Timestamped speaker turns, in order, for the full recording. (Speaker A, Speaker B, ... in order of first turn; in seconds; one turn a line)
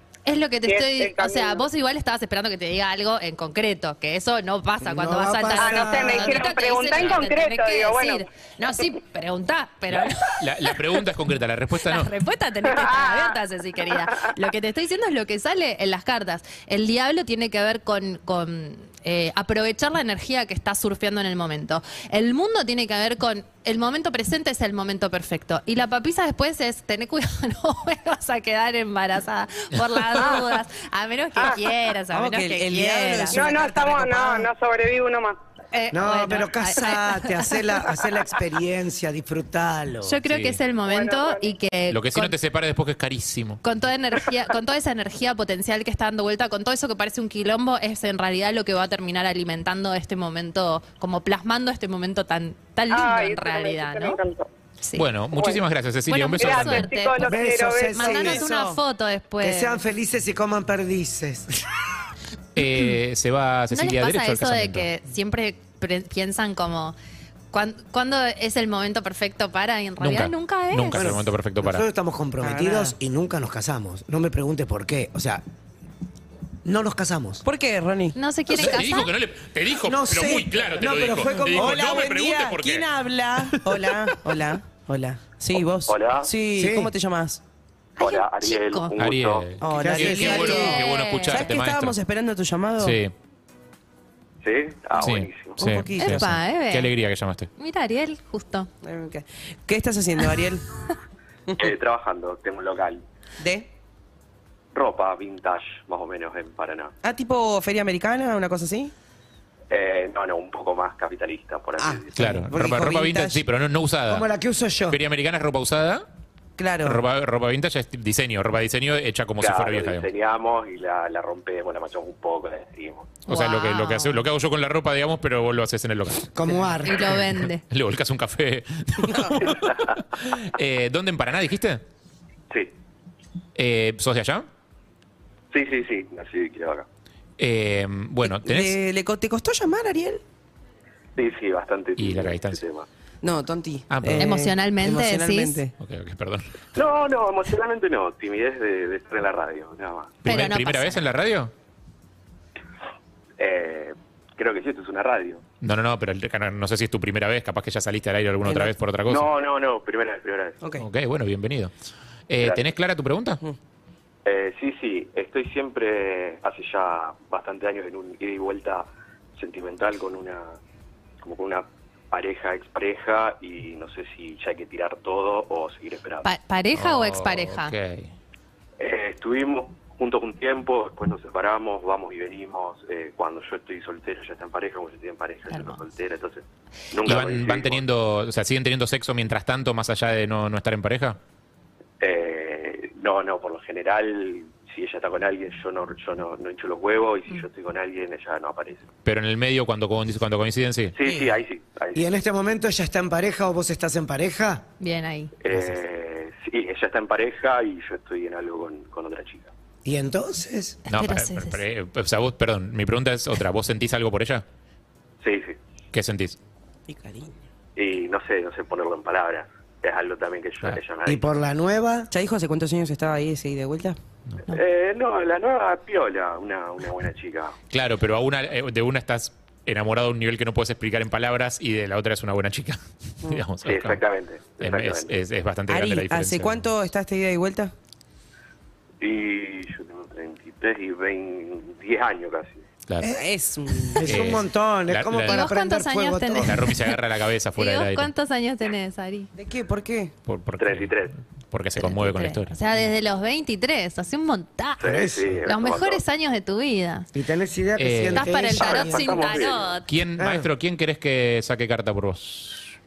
Speaker A: 0.2-10.8
Speaker B: 0.6-1.6
Speaker C: 4.8-6.5
Speaker B: 5.5-8.2
Speaker D: 9.9-12.1
Speaker A: 11.8-33.4
Speaker B: 12.7-13.3
Speaker E: 32.1-34.4
Speaker B: 33.3-35.4
Speaker A: 35.7-37.8
Speaker C: 35.9-40.2
Speaker A: 40.0-42.3
Speaker D: 40.3-40.6
Speaker B: 40.9-41.5
Speaker D: 41.9-43.6
Speaker A: 43.6-54.2
Speaker B: 52.9-54.5
Speaker A: 54.8-55.1
Speaker D: 54.9-56.9
Speaker A: 56.1-59.8
Speaker B: 56.4-58.3
Speaker C: 57.2-58.5
Speaker E: 58.0-58.8
Speaker C: 59.4-61.6
Speaker D: 62.5-64.9
Speaker A: 63.7-66.9
Speaker A: 67.5-71.0
Speaker D: 70.0-71.8
Speaker C: 70.9-75.4
Speaker E: 72.4-72.9
Speaker C: 76.6-77.4
Speaker E: 77.4-78.2
Speaker A: 78.1-79.1
Speaker D: 78.5-82.9
Speaker C: 78.5-78.8
Speaker C: 79.8-81.9
Speaker E: 81.5-87.4
Speaker D: 83.5-84.1
Speaker F: 85.9-86.3
Speaker C: 86.5-86.9
Speaker A: 88.0-89.0
Speaker F: 88.0-89.5
Speaker D: 89.0-92.0
Speaker E: 89.6-93.0
Speaker C: 89.7-90.5
Speaker A: 90.2-91.5
Speaker D: 92.8-93.1
Speaker F: 94.4-95.6
Speaker D: 95.0-97.5
Speaker E: 95.6-96.2
Speaker A: 96.0-96.9
Speaker A: 97.6-98.7
Speaker E: 98.8-100.6
Speaker F: 101.6-103.0
Speaker E: 103.4-103.7
Speaker F: 104.7-106.9
Speaker E: 107.0-108.9
Speaker F: 109.7-112.2
Speaker E: 111.8-113.4
Speaker D: 112.2-114.3
Speaker C: 114.1-115.0
Speaker D: 114.9-116.0
Speaker E: 116.6-117.0
Speaker D: 116.8-120.1
Speaker F: 119.4-123.2
Speaker A: 123.3-124.2
Speaker D: 123.3-131.8
Speaker C: 126.3-127.2
Speaker A: 126.8-127.6
Speaker E: 129.0-129.5
Speaker D: 133.6-134.5
Speaker F: 135.5-136.8
Speaker D: 137.4-138.8
Speaker E: 138.2-140.2
Speaker F: 141.2-142.8
Speaker D: 142.0-142.6
Speaker E: 143.2-145.7
Speaker D: 143.9-144.3
Speaker A: 144.2-145.6
Speaker D: 145.8-146.5
Speaker F: 146.8-150.2
Speaker A: 150.2-151.0
Speaker D: 150.2-151.5
Speaker F: 153.4-155.4
Speaker D: 155.6-159.3
Speaker E: 158.4-158.7
Speaker F: 159.1-160.6
Speaker E: 160.6-160.8
Speaker D: 160.8-161.7
Speaker D: 162.3-163.4
Speaker F: 164.2-170.6
Speaker F: 171.2-176.3
Speaker A: 176.2-177.7
Speaker D: 176.7-178.1
Speaker F: 178.8-187.8
Speaker A: 185.5-185.8
Speaker D: 187.0-191.2
Speaker F: 192.0-198.9
Speaker D: 199.0-201.0
Speaker F: 200.9-202.1
Speaker E: 201.0-201.3
Speaker C: 201.9-204.7
Speaker A: 204.8-205.3
Speaker F: 205.4-209.5
Speaker C: 209.8-210.8
Speaker A: 210.8-211.6
Speaker D: 210.9-214.4
Speaker F: 215.2-215.6
Speaker D: 215.9-216.4
Speaker E: 216.9-217.3
Speaker F: 217.8-221.3
Speaker C: 221.1-222.1
Speaker E: 222.1-224.0
Speaker F: 224.5-227.6
Speaker D: 227.7-234.0
Speaker F: 233.6-235.1
Speaker D: 234.6-236.7
Speaker E: 235.7-237.7
Speaker F: 239.0-242.6
Speaker D: 242.9-243.1
Speaker C: 243.0-243.3
Speaker E: 243.1-244.3
Speaker C: 243.9-246.7
Speaker D: 244.0-245.4
Speaker A: 245.3-246.9
Speaker D: 246.4-248.1
Speaker A: 247.6-249.3
Speaker E: 249.3-250.1
Speaker D: 250.3-252.5
Speaker F: 250.6-251.1
Speaker A: 251.8-257.1
Speaker F: 254.8-256.0
Speaker C: 254.8-255.4
Speaker C: 257.1-259.4
Speaker D: 257.8-258.2
Speaker A: 258.1-259.9
Speaker F: 258.4-259.8
Speaker D: 259.9-262.7
Speaker C: 260.2-260.5